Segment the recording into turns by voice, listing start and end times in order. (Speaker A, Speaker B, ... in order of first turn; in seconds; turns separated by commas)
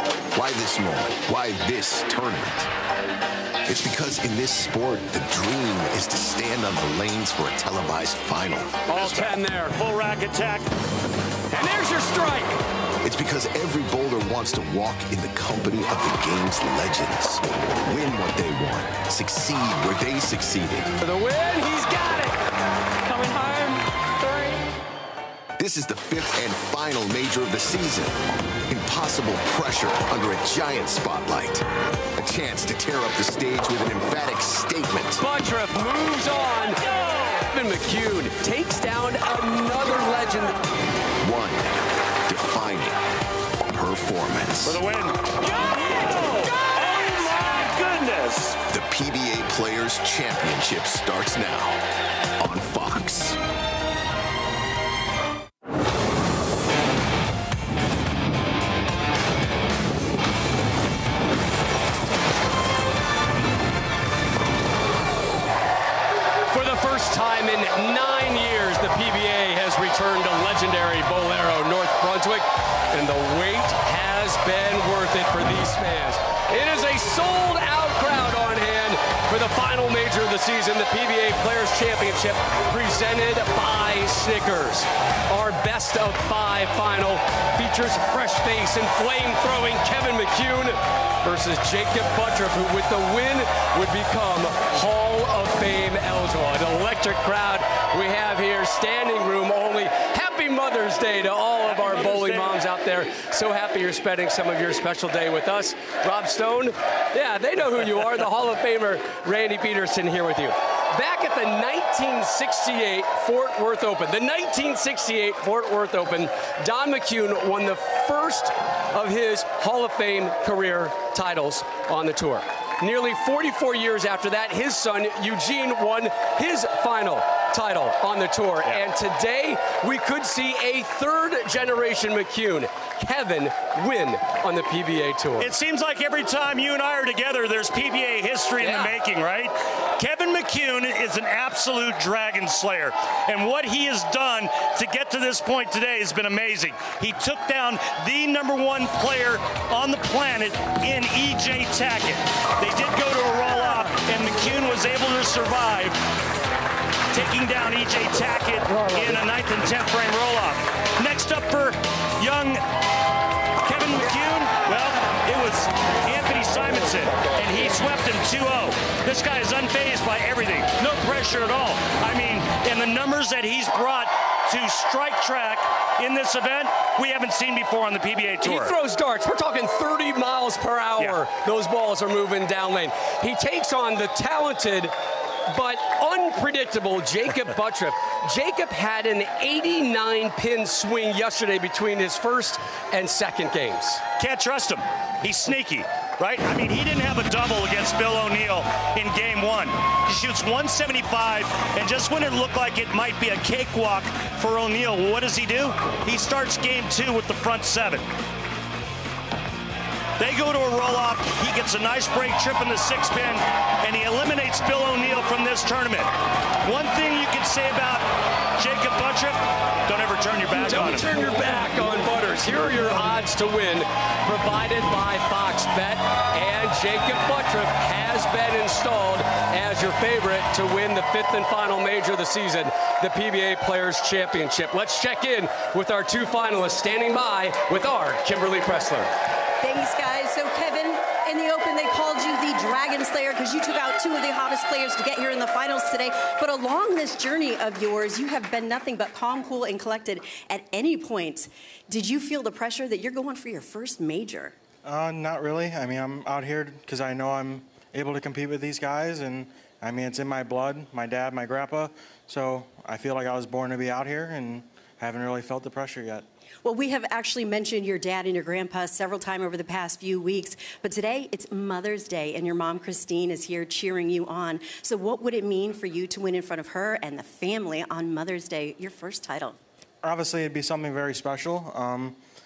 Speaker A: 0.3-2.7, Speaker A: 3.6-8.8, Speaker B: 8.9-9.8, Speaker C: 8.9-10.7, Speaker B: 11.5-12.6, Speaker A: 13.0-20.9, Speaker B: 21.0-22.4, Speaker B: 23.1-24.6, Speaker A: 25.6-31.6, Speaker A: 32.2-35.2, Speaker B: 35.2-40.6, Speaker A: 41.2-41.7, Speaker A: 42.3-43.0, Speaker A: 43.7-44.8, Speaker C: 44.6-48.6, Speaker A: 48.7-51.8, Speaker A: 52.4-53.4, Speaker B: 66.5-135.5, Speaker C: 101.7-102.6, Speaker C: 135.4-156.0, Speaker B: 138.6-138.9, Speaker C: 157.1-162.6, Speaker C: 163.6-178.8, Speaker B: 178.4-184.9, Speaker B: 185.5-194.0, Speaker C: 194.2-208.1, Speaker C: 210.2-216.1, Speaker C: 216.6-221.1, Speaker B: 220.6-239.1, Speaker D: 239.6-254.6, Speaker E: 254.8-266.2, Speaker D: 266.6-279.6, Speaker E: 280.0-282.2